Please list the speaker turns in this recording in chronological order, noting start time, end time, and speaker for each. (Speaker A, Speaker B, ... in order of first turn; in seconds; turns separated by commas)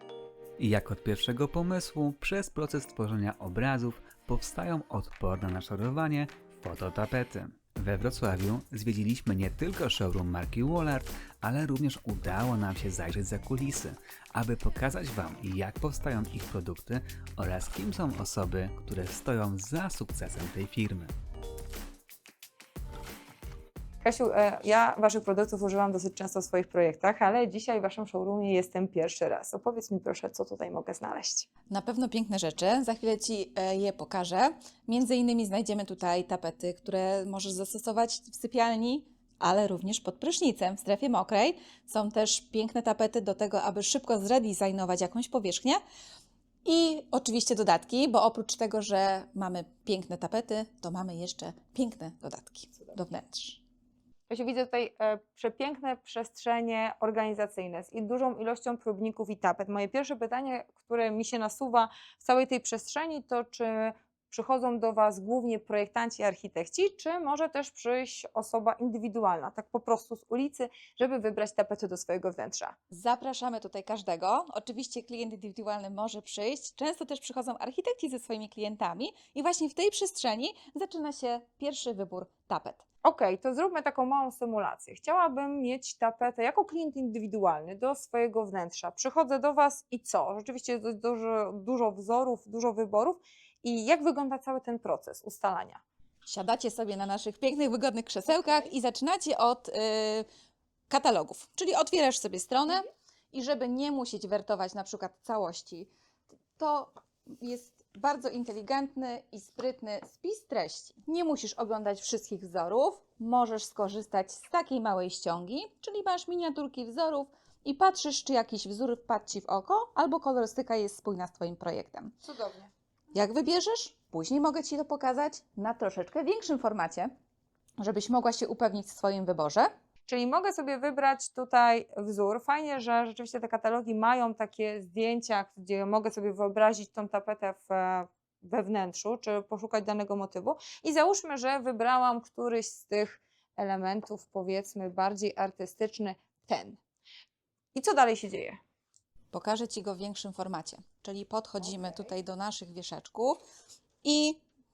Speaker A: 0.6-21.1, Speaker B: 24.0-31.5, Speaker C: 31.7-45.8, Speaker C: 46.6-53.6, Speaker B: 54.3-72.8, Speaker C: 72.9-82.8, Speaker B: 83.0-95.8, Speaker C: 96.2-100.3, Speaker C: 100.9-105.9, Speaker C: 106.5-122.1, Speaker B: 122.2-122.7, Speaker C: 123.1-127.1, Speaker C: 127.8-129.7, Speaker B: 130.1-146.8, Speaker B: 147.7-148.6, Speaker C: 149.3-153.4, Speaker C: 154.0-154.4